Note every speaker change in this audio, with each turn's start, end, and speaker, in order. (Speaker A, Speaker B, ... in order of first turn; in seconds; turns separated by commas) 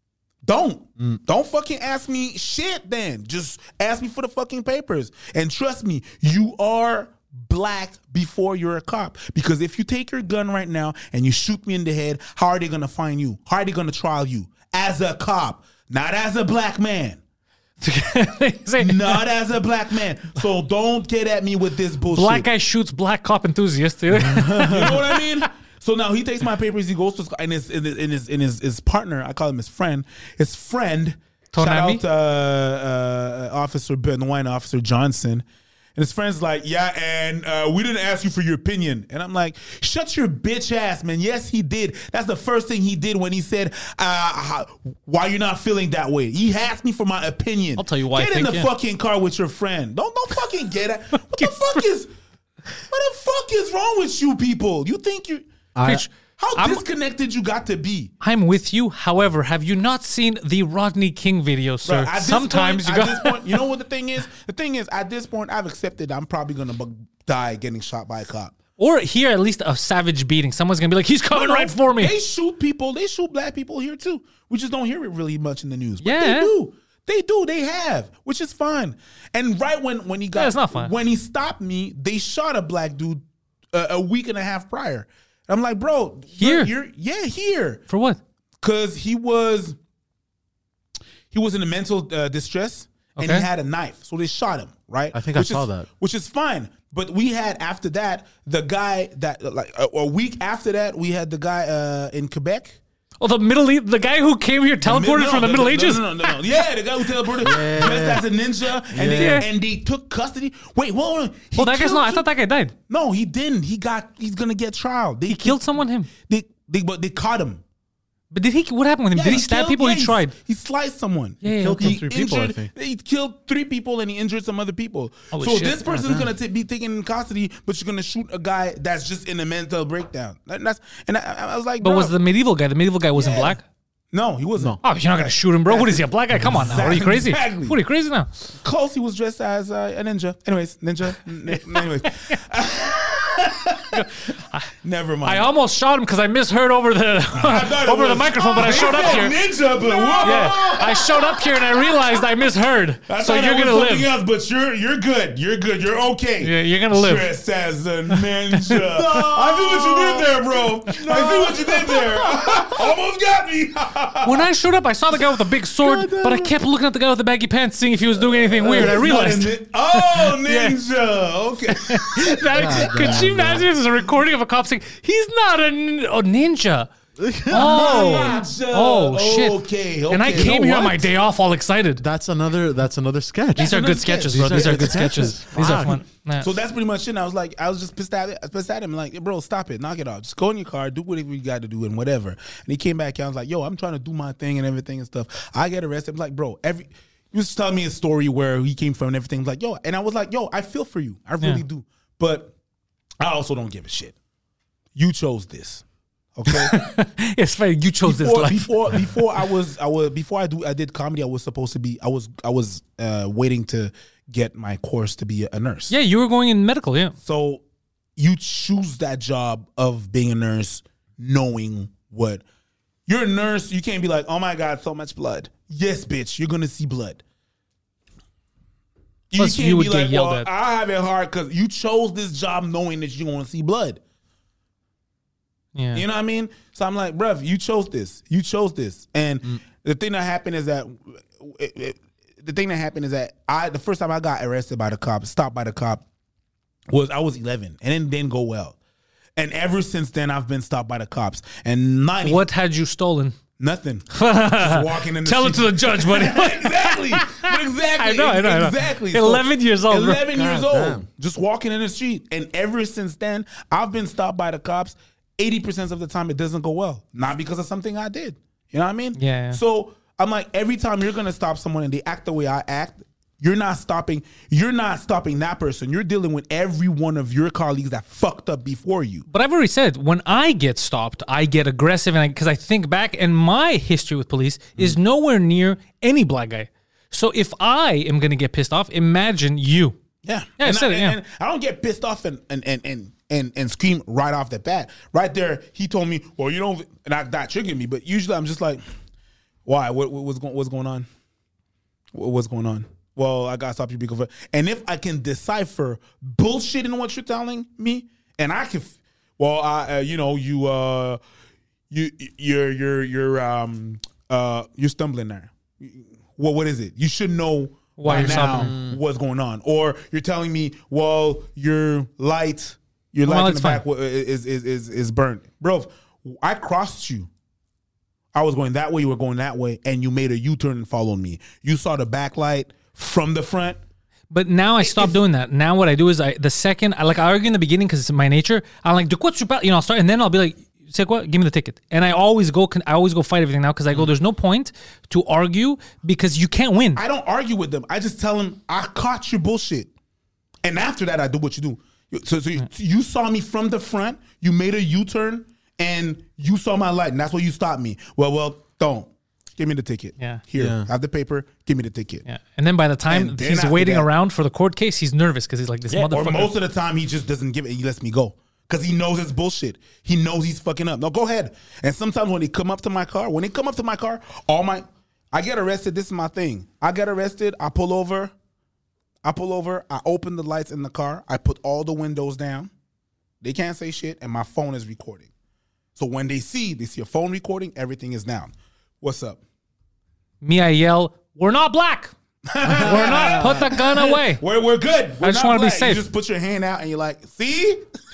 Speaker A: 0.4-17.2, Speaker B: 17.8-19.2, Speaker A: 18.8-22.5, Speaker B: 22.1-25.4, Speaker C: 24.2-24.9, Speaker A: 24.2-35.5, Speaker B: 31.5-32.0, Speaker A: 36.0-52.1, Speaker B: 47.8-48.7, Speaker A: 52.9-55.5, Speaker C: 55.8-56.0, Speaker B: 55.8-56.8, Speaker A: 56.4-58.1, Speaker B: 58.2-63.6, Speaker A: 61.9-68.6, Speaker B: 68.8-72.1, Speaker A: 71.3-87.8, Speaker B: 76.0-76.5, Speaker B: 80.3-80.9, Speaker B: 86.4-86.7, Speaker B: 87.9-88.2, Speaker A: 88.6-89.8, Speaker A: 91.3-102.8, Speaker B: 93.2-93.5, Speaker C: 95.1-95.9, Speaker B: 103.2-106.4, Speaker A: 104.8-112.3, Speaker C: 107.4-108.2, Speaker C: 108.9-109.5, Speaker B: 109.2-109.5, Speaker B: 111.6-112.8, Speaker A: 112.9-117.6, Speaker B: 115.3-116.1, Speaker B: 118.3-120.3, Speaker A: 119.1-132.1, Speaker B: 121.4-122.0, Speaker C: 121.5-122.7, Speaker B: 125.3-126.1, Speaker C: 126.0-126.3, Speaker B: 131.8-133.6, Speaker A: 133.2-133.6, Speaker A: 134.1-137.8, Speaker B: 134.8-138.3, Speaker C: 136.4-136.7, Speaker A: 138.6-144.1, Speaker B: 143.9-144.7, Speaker A: 144.8-145.5, Speaker B: 145.2-149.4, Speaker A: 147.3-152.2, Speaker B: 150.2-154.1, Speaker A: 153.1-164.5, Speaker B: 156.4-157.3, Speaker B: 158.1-159.2, Speaker C: 159.0-160.3, Speaker C: 160.9-162.6, Speaker B: 164.2-170.8, Speaker C: 165.8-166.5, Speaker A: 168.6-173.3, Speaker C: 168.6-168.9, Speaker B: 171.7-176.9, Speaker C: 172.5-173.7, Speaker C: 177.2-178.4, Speaker B: 177.5-182.0, Speaker A: 177.5-181.1, Speaker C: 182.0-186.0, Speaker A: 183.6-202.5, Speaker B: 183.6-186.5, Speaker A: 203.2-204.2, Speaker A: 204.9-205.8, Speaker A: 206.3-206.8, Speaker B: 206.5-209.1, Speaker A: 208.0-215.9, Speaker B: 215.9-217.2, Speaker A: 217.2-217.6, Speaker A: 218.2-222.4, Speaker A: 223.1-227.2, Speaker A: 229.3-234.0, Speaker B: 229.3-230.5, Speaker B: 235.8-236.1, Speaker A: 235.9-246.0, Speaker A: 246.9-248.8, Speaker A: 249.4-252.4, Speaker B: 252.2-253.3, Speaker A: 253.6-279.3, Speaker B: 254.1-260.3, Speaker C: 260.3-261.0, Speaker B: 269.2-269.6, Speaker B: 279.3-290.0, Speaker A: 290.2-298.8, Speaker B: 290.6-291.2, Speaker A: 299.6-301.1, Speaker A: 302.1-311.2, Speaker A: 311.9-327.3, Speaker B: 318.0-318.8, Speaker C: 318.1-319.0, Speaker B: 323.3-323.8, Speaker A: 328.3-333.8, Speaker B: 334.3-347.0, Speaker A: 334.8-335.2, Speaker A: 347.0-349.9, Speaker A: 350.6-362.2, Speaker B: 360.2-360.4, Speaker C: 360.6-360.9, Speaker B: 362.3-366.5, Speaker A: 363.1-364.1, Speaker A: 365.9-378.3, Speaker A: 379.2-382.7, Speaker A: 383.4-385.3, Speaker A: 386.0-389.4, Speaker B: 390.4-392.1, Speaker A: 392.5-397.8, Speaker B: 392.6-394.4, Speaker B: 395.2-396.1